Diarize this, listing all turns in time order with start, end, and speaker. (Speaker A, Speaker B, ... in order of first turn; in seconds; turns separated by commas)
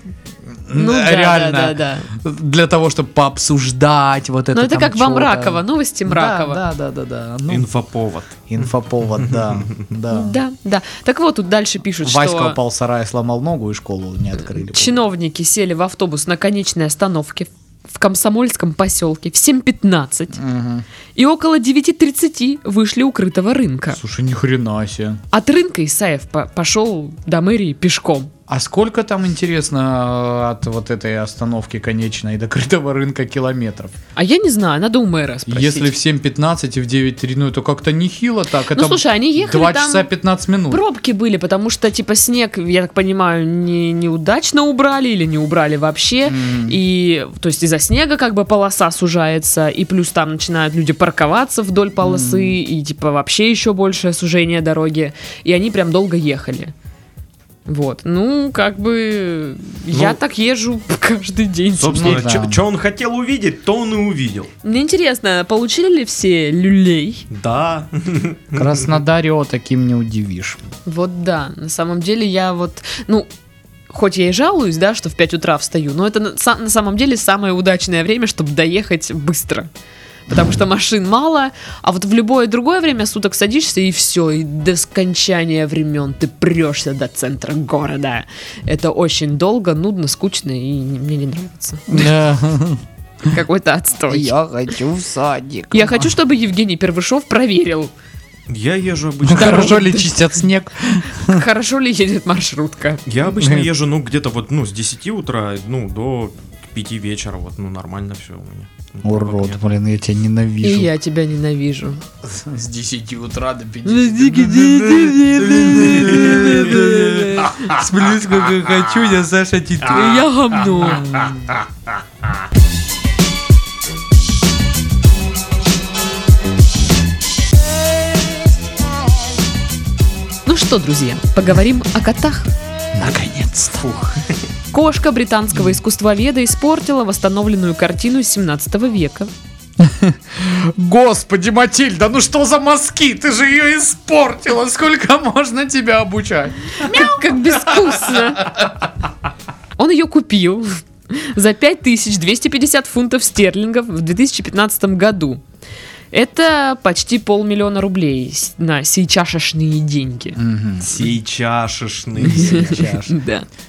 Speaker A: 0.5-7.7, Speaker B: 0.7-2.1, Speaker B: 4.5-6.6, Speaker C: 7.5-8.4, Speaker A: 8.5-10.4, Speaker B: 10.1-12.6, Speaker A: 12.0-15.0, Speaker B: 14.5-20.4, Speaker A: 20.3-20.9, Speaker B: 21.1-24.0, Speaker A: 23.9-25.2, Speaker B: 25.3-28.3, Speaker A: 28.5-33.9, Speaker B: 34.1-35.9, Speaker A: 35.5-40.8, Speaker B: 38.7-40.1, Speaker B: 40.7-56.7, Speaker A: 46.2-46.8, Speaker A: 52.0-52.6, Speaker B: 57.6-62.2, Speaker C: 59.9-60.2, Speaker C: 61.8-64.5, Speaker A: 61.9-62.6, Speaker B: 64.6-67.3, Speaker C: 67.3-68.8, Speaker A: 68.5-70.6, Speaker B: 70.8-73.3, Speaker B: 73.9-79.7, Speaker B: 80.3-92.0, Speaker A: 91.9-92.8, Speaker B: 93.3-94.3, Speaker A: 94.1-96.1, Speaker B: 95.7-97.9, Speaker C: 98.5-99.9, Speaker A: 99.2-101.4, Speaker B: 99.3-100.2, Speaker B: 101.2-103.0, Speaker C: 103.1-109.6, Speaker A: 103.3-103.7, Speaker A: 109.0-110.9, Speaker B: 110.6-112.0, Speaker A: 112.2-121.7, Speaker B: 113.8-117.8, Speaker C: 116.0-116.7, Speaker B: 119.9-121.3, Speaker B: 130.4-132.5, Speaker A: 132.9-133.9, Speaker C: 133.8-134.2, Speaker B: 134.7-139.3, Speaker A: 139.8-148.8, Speaker B: 146.8-148.6, Speaker B: 149.8-155.4, Speaker B: 156.1-160.4, Speaker A: 160.3-161.0, Speaker C: 160.8-163.0, Speaker A: 162.2-163.1, Speaker B: 162.2-163.4